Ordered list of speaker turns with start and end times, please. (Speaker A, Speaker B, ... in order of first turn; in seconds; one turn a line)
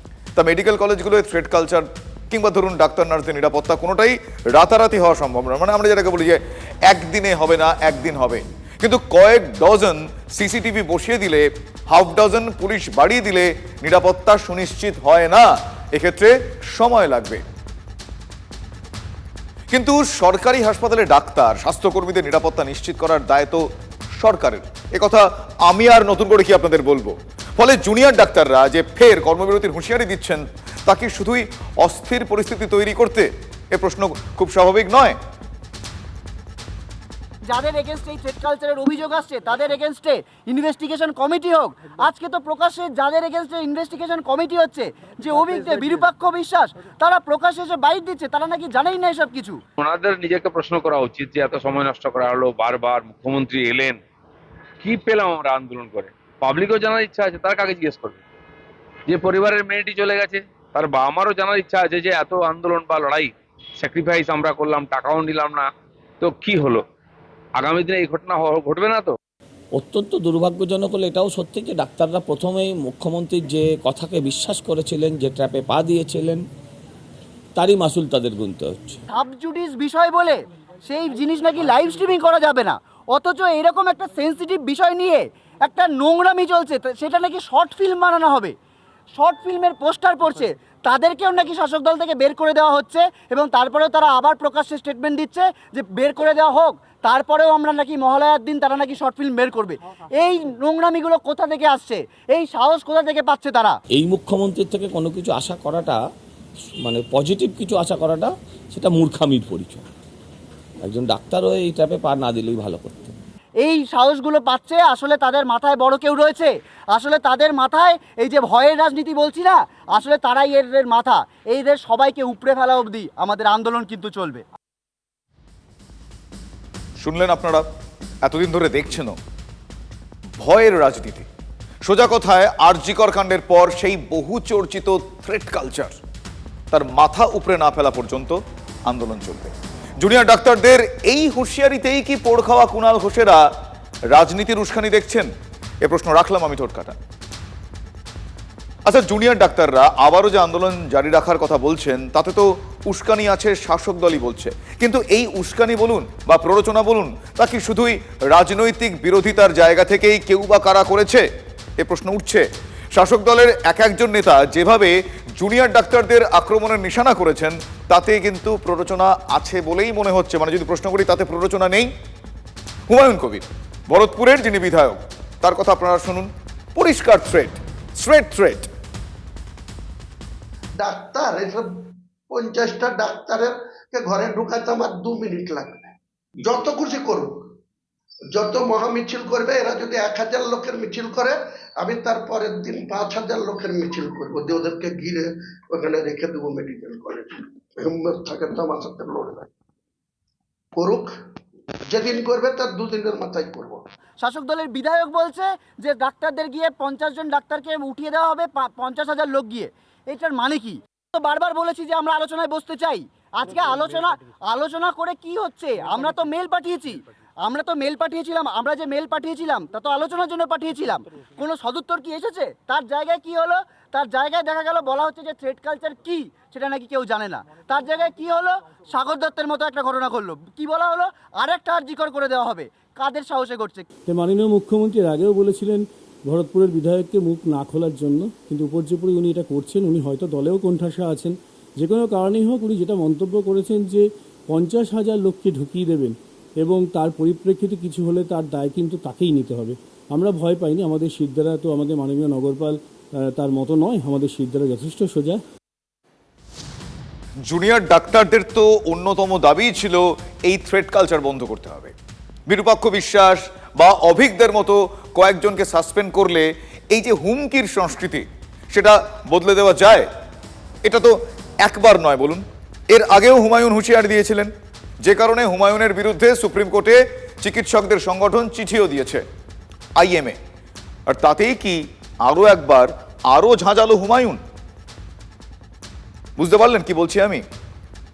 Speaker A: 0.3-17.4
Speaker A: 19.7-35.2
Speaker B: 37.5-49.6
Speaker C: 49.8-54.0
Speaker C: 54.8-58.2
Speaker C: 59.1-65.7
Speaker C: 66.2-66.8
Speaker C: 67.6-69.2
Speaker D: 69.7-76.4
Speaker D: 77.5-79.0
Speaker B: 79.1-88.5
Speaker B: 89.1-103.8
Speaker D: 103.9-106.0
Speaker D: 106.8-109.8
Speaker D: 110.8-113.2
Speaker B: 113.6-124.4
Speaker A: 127.0-127.7
Speaker A: 128.2-129.2
Speaker A: 130.4-131.2
Speaker A: 131.8-135.9
Speaker A: 136.7-143.4
Speaker A: 144.1-145.3
Speaker A: 145.8-147.0
Speaker A: 148.8-161.2
Speaker A: 161.8-171.9
Speaker A: 172.9-178.7
Speaker E: 180.8-181.7
Speaker E: 182.3-187.3
Speaker E: 188.3-199.5
Speaker E: 200.8-201.1
Speaker E: 201.9-203.8
Speaker B: 204.2-233.9
Speaker F: 234.1-255.4
Speaker A: 257.4-261.9
Speaker A: 262.5-270.1
Speaker A: 270.8-279.2
Speaker A: 279.9-280.4
Speaker A: 281.1-284.4
Speaker A: 286.4-287.4